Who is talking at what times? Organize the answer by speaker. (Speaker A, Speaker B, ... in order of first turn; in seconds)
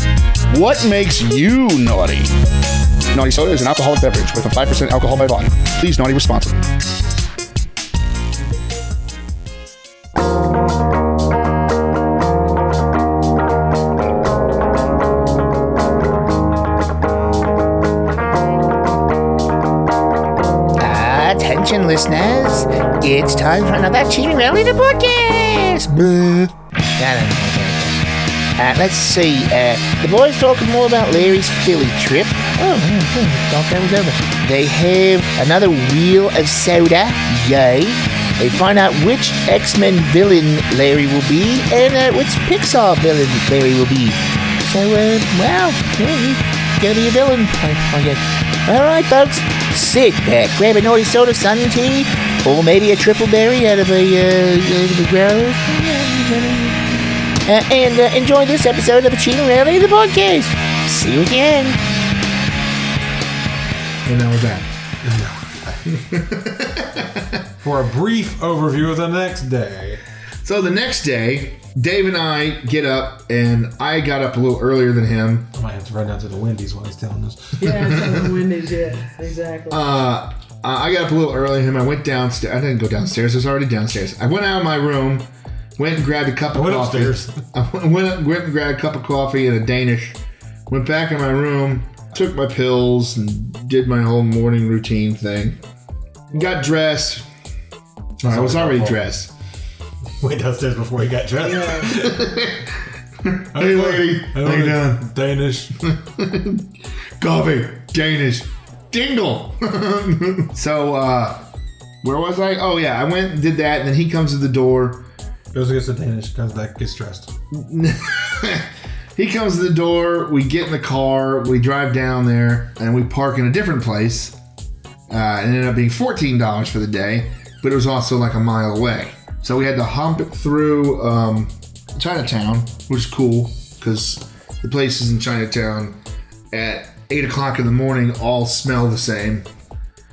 Speaker A: 0.5-2.3, 3.1-6.6
Speaker B: 20.8-28.0, 28.6-56.8, 57.5-61.8
Speaker C: 64.0-64.7, 65.8-67.4, 70.4-75.5, 77.8-78.2, 79.7-95.6, 96.3-97.2, 98.2-99.3, 101.9-102.7, 103.2-105.1, 105.8-106.7, 107.2-111.4, 112.0-115.1, 117.5-124.3, 125.1-136.0, 136.5-139.5
Speaker D: 65.0-65.8, 67.6-70.0, 75.5-78.0, 86.5-87.4, 98.2-99.0, 100.2-102.5, 103.5-105.8, 115.5-117.3
Speaker E: 77.6-79.9, 101.5-101.9